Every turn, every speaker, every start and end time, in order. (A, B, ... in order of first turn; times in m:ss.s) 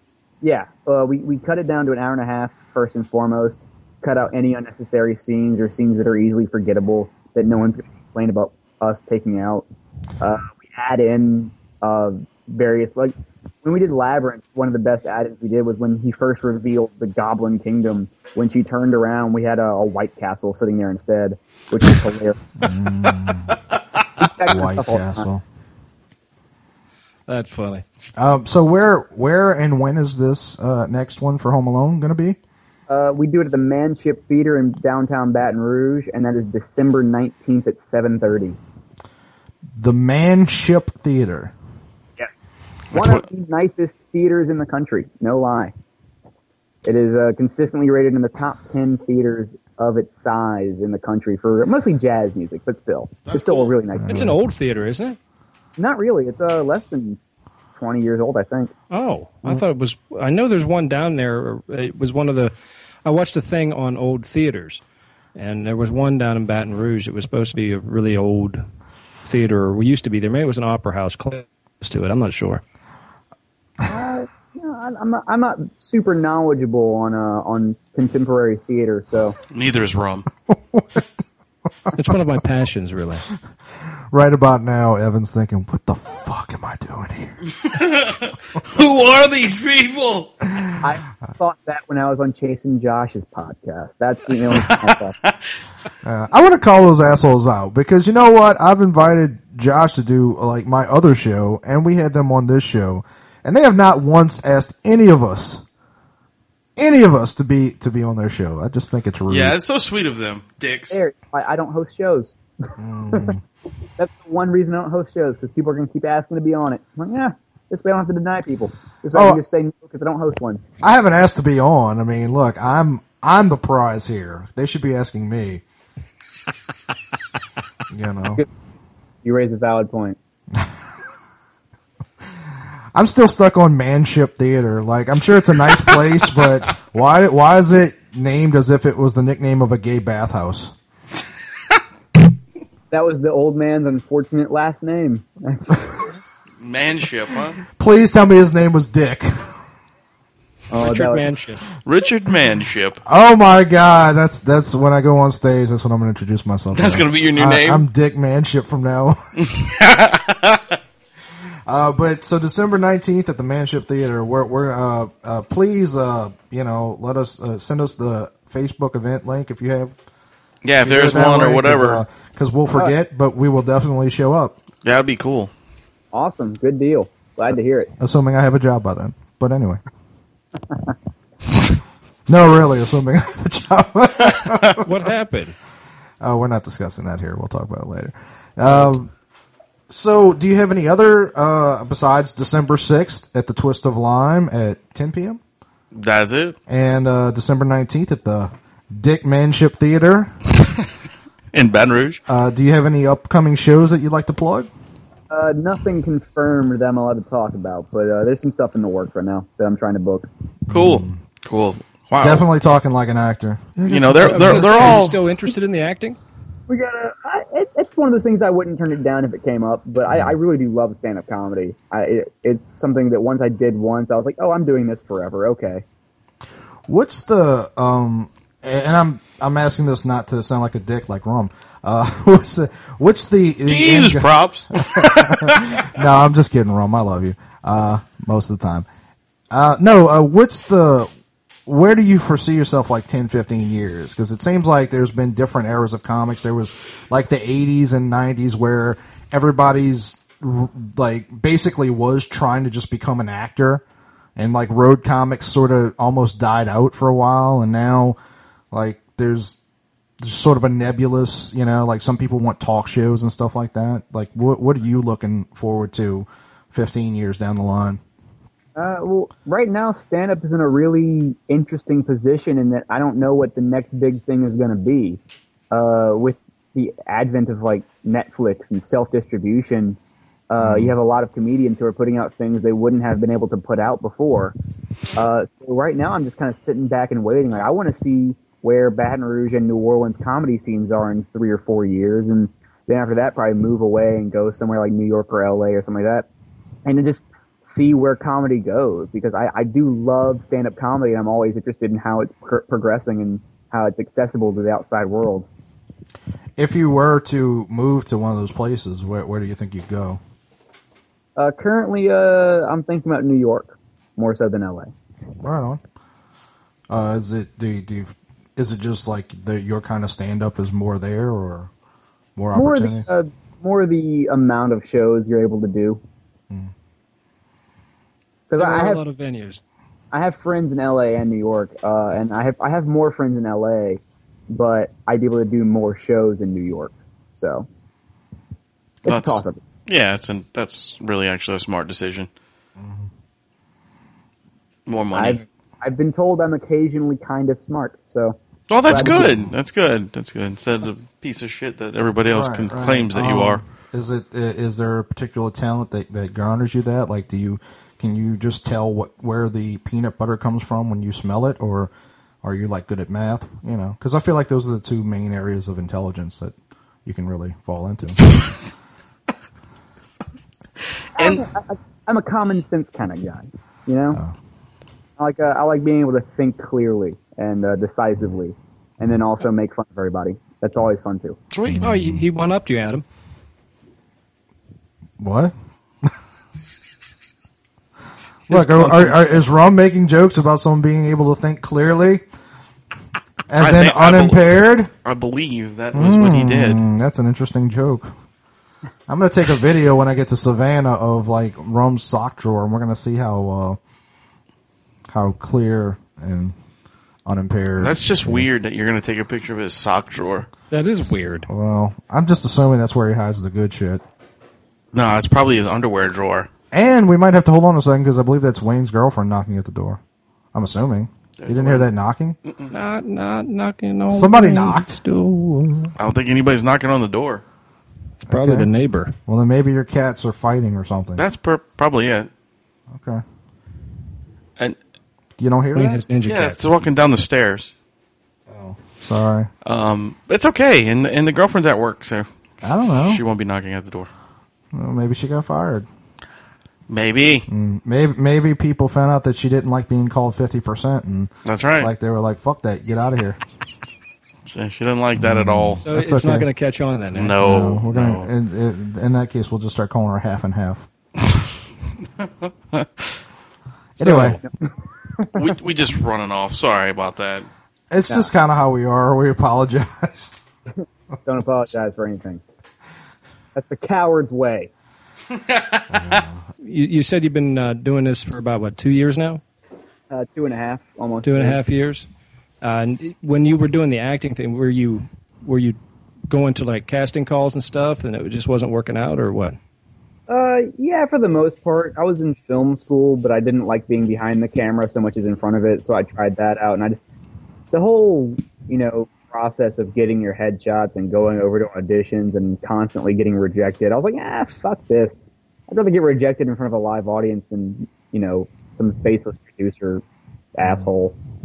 0:00.4-0:09.6 A
0:10.2-0:22.4 A
0:22.6-0:23.6 B
0:24.2-0:25.2 A
0:24.4-0:25.4 B
0:27.3-0:27.8 C
0:28.2-0:32.4 B
0:32.9-0:38.6 A
0:39.8-0:41.5 B
0:42.2-0:45.7 A
0:42.9-0:43.2 D
0:46.8-0:54.4 A
0:53.3-0:53.7 D
0:54.0-0:54.4 B
0:54.1-0:55.2 C
0:55.8-0:57.2 A
0:57.7-0:58.7 A
0:58.9-1:02.5 C
1:03.0-1:04.8 C
1:05.3-1:08.6 C
1:09.2-1:12.6 C
1:13.8-1:19.4 A
1:19.5-1:20.3 D
1:20.5-1:21.1 B
1:21.9-1:23.2 C
1:24.1-1:27.4 B
1:27.6-1:30.3 D
1:30.8-1:35.2 A
1:34.5-1:35.4 D
1:36.0-1:45.6 B
1:46.8-1:49.6 B
1:49.3-1:51.0 D
1:50.9-1:53.3 A
1:52.8-1:53.4 B
1:54.0-2:00.6 A
1:59.1-1:59.4 B
2:00.8-2:05.6 B
2:07.9-2:08.4 B
2:09.2-2:10.2 A
2:12.9-2:20.7 B
2:22.9-2:26.0 A
2:26.6-2:27.6 D
2:27.8-2:29.5 B
2:30.7-2:31.3 A
2:30.8-2:31.6 C
2:31.8-2:33.0 D
2:33.0-2:39.2 B
2:36.7-2:37.8 D
2:39.4-2:40.6 D
2:41.6-2:49.9 B
2:50.6-2:52.0 D
2:50.8-2:54.6 B
2:54.8-2:55.5 D
2:56.1-2:57.9 A
2:58.0-2:59.8 B
3:02.3-3:04.8 B
3:04.4-3:04.8 D
3:04.8-3:05.6 C
3:06.2-3:09.1 B
3:09.9-3:15.4 B
3:15.9-3:16.6 D
3:16.7-3:20.3 B
3:21.5-3:22.2 D
3:22.3-3:24.7 B
3:25.3-3:30.3 A
3:30.7-3:31.2 B
3:30.7-3:32.4 D
3:32.2-3:35.0 B
3:33.8-3:35.2 D
3:34.1-3:36.2 C
3:36.7-3:45.8 A
3:46.9-3:58.8 B
3:53.6-3:55.9 D
3:59.5-4:01.1 B
4:01.6-4:13.8 B
4:14.4-4:18.2 B
4:18.7-4:19.6 B
4:20.2-4:28.0 B
4:28.8-4:35.2 A
4:35.7-4:40.0 A
4:40.5-4:44.5 A
4:40.6-4:41.0 B
4:45.2-4:56.3 A
4:56.8-5:05.5 A
5:06.6-5:10.2 B
5:11.4-5:14.9 A
5:15.4-5:15.8 B
5:16.9-5:21.7 B
5:22.4-5:23.1 B
5:22.5-5:26.0 A
5:28.5-5:29.0 A
5:28.6-5:29.6 C
5:30.1-5:37.7 A
5:39.0-5:39.6 A
5:39.0-5:42.3 D
5:42.8-5:43.1 B
5:44.9-5:45.4 D
5:45.1-5:48.4 A
5:48.7-5:53.6 D
5:48.9-5:49.3 A
5:49.0-5:49.5 B
5:52.3-6:01.9 B
6:02.4-6:08.2 B
6:11.2-6:11.4 D
6:11.2-6:14.2 A
6:15.2-6:21.4 A
6:21.5-6:21.8 D
6:21.6-6:22.2 B
6:21.8-6:23.0 C
6:25.2-6:26.1 B
6:28.5-6:29.4 C
6:28.5-6:32.2 B
6:33.5-6:34.9 B
6:33.6-6:34.4 D
6:35.0-6:36.8 D
6:35.9-6:38.1 B
6:39.1-6:43.8 B
6:45.1-6:46.5 B
6:47.2-6:48.5 B
6:47.8-6:50.5 D
6:50.7-6:51.5 C
6:51.5-6:54.0 B
6:54.9-6:56.5 D
6:56.7-7:00.0 B
7:00.5-7:02.4 B
7:01.4-7:01.9 D
7:02.4-7:02.7 D
7:02.7-7:05.9 C
7:04.1-7:05.0 B
7:06.0-7:07.4 D
7:08.2-7:09.1 C
7:08.3-7:08.7 B
7:09.2-7:11.2 B
7:11.2-7:12.3 D
7:12.9-7:13.2 B
7:15.4-7:16.0 B
7:15.7-7:16.6 C
7:16.2-7:17.7 D
7:18.5-7:19.5 B
7:19.6-7:22.3 D
7:22.6-7:23.2 B
7:23.0-7:24.1 D
7:24.7-7:25.9 B
7:26.9-7:27.4 D
7:27.5-7:33.4 B
7:31.4-7:31.9 D
7:34.4-7:35.8 D
7:35.2-7:36.5 B
7:35.8-7:37.8 C
7:37.1-7:38.3 D
7:37.4-7:40.9 B
7:44.0-7:44.4 B
7:44.0-7:44.4 C
7:44.4-7:44.7 A
7:45.3-7:47.5 D
7:47.9-7:50.3 B
7:51.2-7:52.4 A
7:53.5-7:54.7 A
7:55.3-7:56.2 D
7:55.9-7:56.4 B
7:56.6-7:59.4 C
8:00.1-8:01.6 A
8:01.2-8:02.1 C
8:02.6-8:05.8 C
8:06.3-8:09.6 C
8:10.3-8:17.0 A
8:17.7-8:30.0 A
8:30.5-8:31.1 A
8:30.6-8:30.9 B